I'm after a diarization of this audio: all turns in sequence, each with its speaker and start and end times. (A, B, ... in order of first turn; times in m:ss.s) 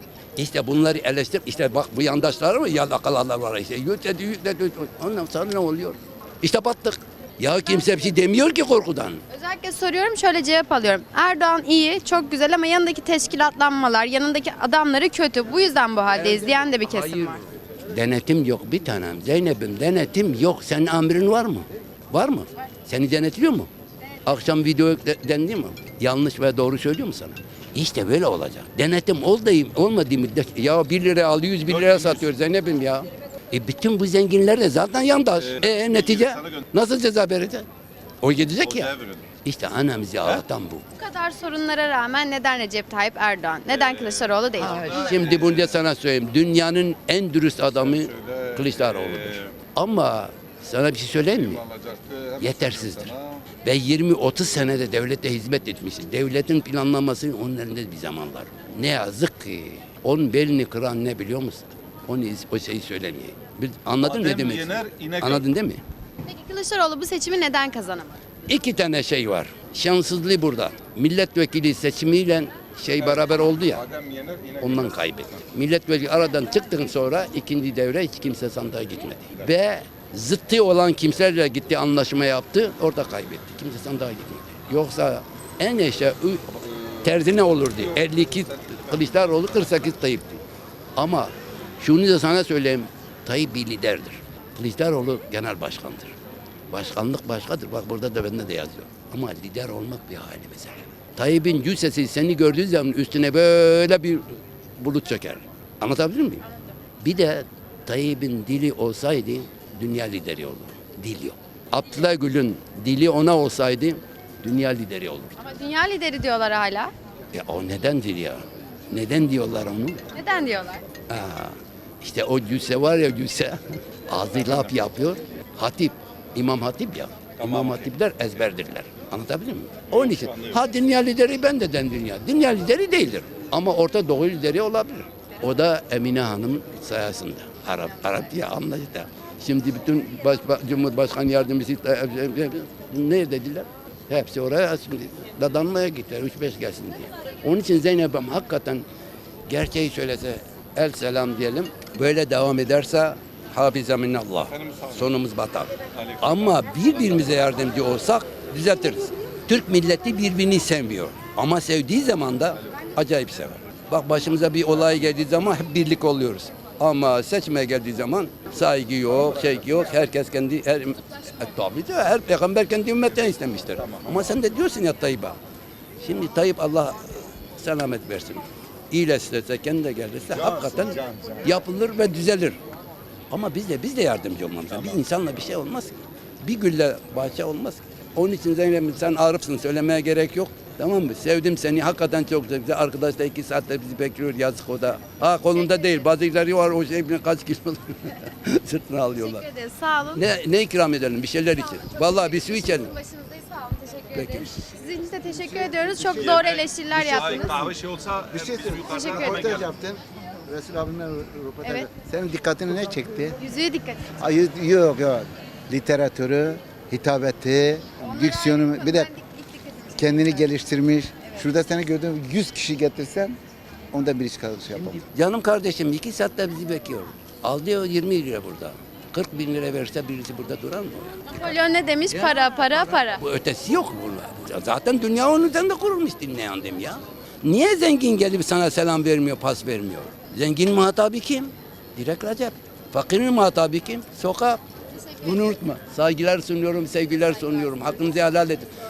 0:00.4-0:09.2 A
0:09.3-0:17.4 B
0:16.1-0:23.7 A
0:24.2-0:37.6 A
0:35.6-0:36.6 C
0:38.2-0:38.9 A
0:38.8-0:39.2 C
0:39.4-0:40.8 A
0:41.0-0:45.0 B
0:44.6-0:51.6 A
0:44.8-0:45.6 C
0:48.1-0:49.4 C
0:51.6-0:53.4 C
0:52.4-0:53.1 A
0:53.6-1:05.8 A
1:04.1-1:05.4 C
1:06.2-1:08.2 B
1:08.5-1:13.8 A
1:13.8-1:14.7 C
1:14.6-1:30.4 A
1:31.0-1:36.1 A
1:36.7-1:44.2 A
1:44.8-1:46.4 A
1:47.0-1:55.4 A
1:55.4-1:56.9 B
1:57.3-2:00.0 A
2:00.1-2:00.8 B
2:01.1-2:28.8 A
2:10.1-2:10.5 C
2:29.5-2:55.4 A
2:56.0-3:02.6 A
3:00.6-3:01.4 C
3:03.3-3:19.4 A
3:19.2-3:20.2 B
3:20.1-3:22.9 A
3:21.7-3:27.6 B
3:24.1-3:24.6 A
3:26.1-3:29.6 C
3:28.3-3:33.4 D
3:28.8-3:29.6 B
3:31.6-3:31.9 B
3:33.4-3:34.2 B
3:34.2-3:39.1 D
3:38.0-3:40.6 B
3:40.0-3:43.4 D
3:43.9-3:45.0 D
3:44.8-3:51.3 A
3:51.3-3:53.2 B
3:52.1-4:04.6 A
4:04.9-4:05.3 B
4:05.2-4:08.7 A